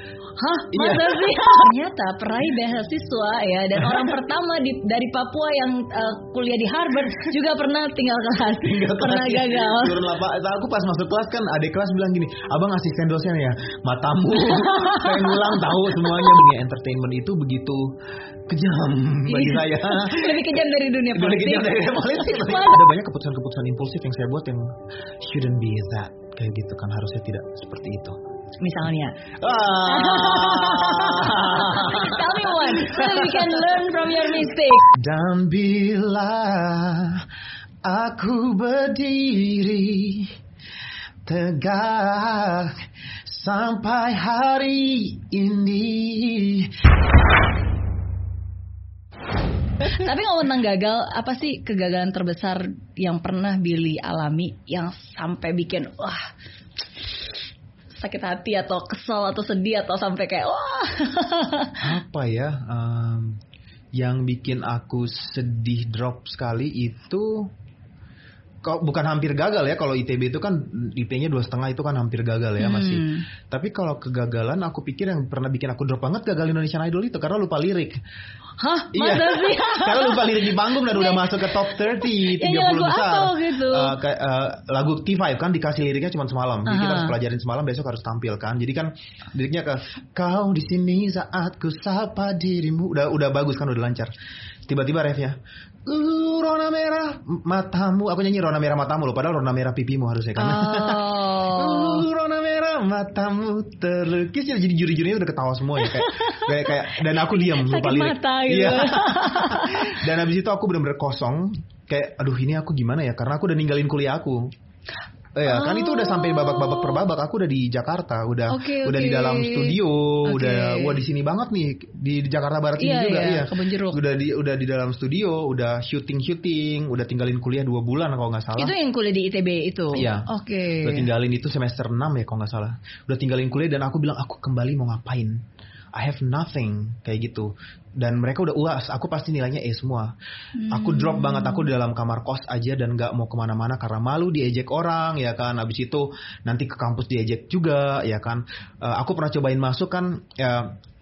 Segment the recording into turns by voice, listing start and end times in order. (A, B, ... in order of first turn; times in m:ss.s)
0:00.4-0:10.0 A
0:00.7-0:01.3 B
0:08.6-0:17.9 B
0:14.4-0:16.4 A
0:18.5-0:20.5 B
0:19.3-0:22.9 A
0:21.1-0:24.7 B
0:25.2-0:28.2 B
0:28.6-0:29.2 A
0:29.4-0:33.7 B
0:29.8-0:34.9 A
0:34.9-0:37.2 B
0:37.9-0:40.3 B
0:41.3-0:46.7 B
0:49.8-0:56.2 A
0:57.0-0:57.3 A
0:58.0-1:01.8 A
1:01.8-1:03.4 B
1:04.0-1:07.5 B
1:08.6-1:18.0 B
1:12.6-1:13.3 A
1:18.6-1:24.0 A
1:18.9-1:34.1 B
1:26.7-1:27.1 A
1:34.7-1:54.5 B
1:40.4-1:42.0 A
1:45.8-1:50.0 A
1:55.4-2:08.7 B
1:55.5-1:57.0 A
1:58.5-2:01.0 A
2:02.8-2:04.0 A
2:08.6-2:11.1 A
2:09.9-2:10.3 B
2:10.8-2:15.4 B
2:16.0-2:20.1 B
2:20.6-2:21.7 A
2:20.6-2:30.8 B